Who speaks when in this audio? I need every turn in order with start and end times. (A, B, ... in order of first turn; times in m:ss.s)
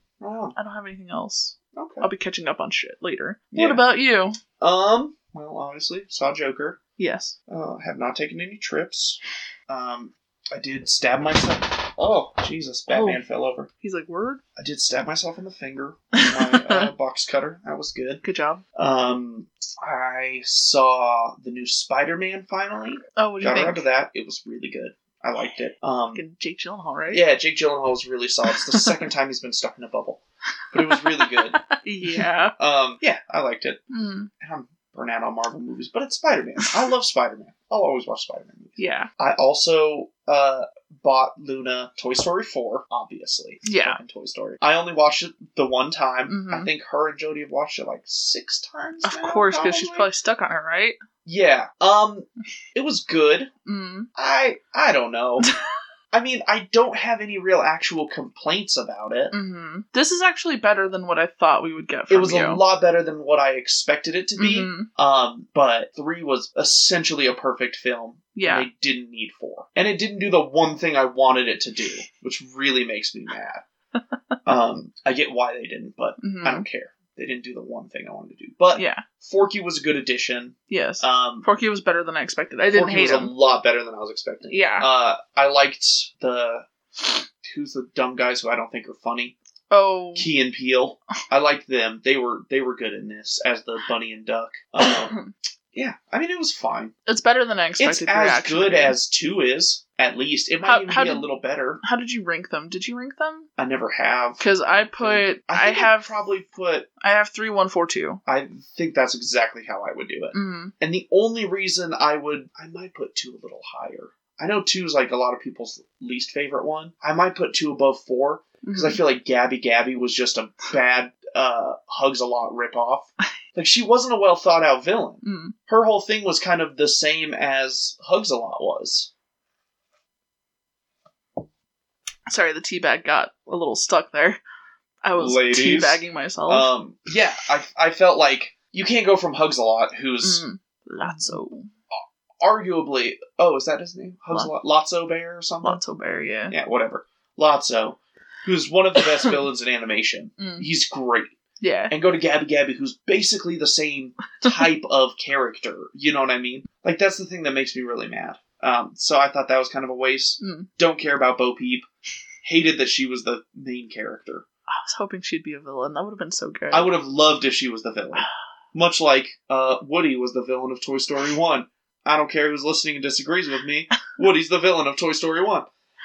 0:00.2-0:00.6 A
0:00.6-0:04.4 B
0:01.7-0:02.1 A
0:03.5-0:03.8 A
0:04.6-0:06.8 A
0:07.0-0:07.4 B
0:07.5-0:13.7 A
0:12.9-0:13.2 B
0:13.8-0:14.4 B
0:14.6-0:18.2 A
0:16.1-0:16.9 B
0:18.2-0:18.6 B
0:18.7-0:26.2 A
0:23.2-0:23.8 B
0:26.1-0:27.2 B
0:27.1-0:30.2 A
0:28.5-0:28.9 B
0:30.7-0:33.8 A
0:30.9-0:32.5 B
0:33.9-0:34.3 B
0:34.4-0:50.1 A
0:38.8-0:39.1 B
0:43.6-0:44.0 B
0:46.3-0:46.7 B
0:49.0-0:51.0 B
0:51.2-0:53.5 A
0:53.6-0:54.1 B
0:54.2-0:55.5 A
0:56.1-0:59.3 A
0:59.3-1:02.6 B
1:02.1-1:13.6 A
1:04.4-1:04.9 B
1:08.3-1:08.7 B
1:14.4-1:21.5 A
1:16.2-1:16.6 B
1:18.7-1:19.0 B
1:20.7-1:23.3 B
1:22.7-1:29.4 A
1:24.5-1:24.9 B
1:29.7-1:30.3 B
1:30.2-1:35.2 A
1:34.9-1:35.2 B
1:35.7-1:36.9 A
1:37.0-1:39.0 B
1:37.8-1:41.8 A
1:40.6-1:41.2 B
1:41.8-1:43.5 B
1:43.6-1:46.9 A
1:44.4-1:46.1 B
1:47.0-1:48.2 B
1:48.2-2:09.1 A
1:50.3-1:50.7 B
1:58.6-1:59.0 B
2:05.2-2:05.6 B
2:12.3-2:14.4 B
2:15.0-2:16.7 B
2:15.2-2:20.4 A
2:20.2-2:21.7 B
2:21.0-2:21.4 A
2:21.9-2:25.8 A
2:25.6-2:26.5 B
2:26.5-2:31.4 A
2:30.4-2:30.6 B
2:31.6-2:31.9 B
2:31.9-2:41.8 A
2:40.4-2:40.7 B
2:42.4-2:44.4 A
2:44.7-2:46.9 B
2:46.7-2:55.7 A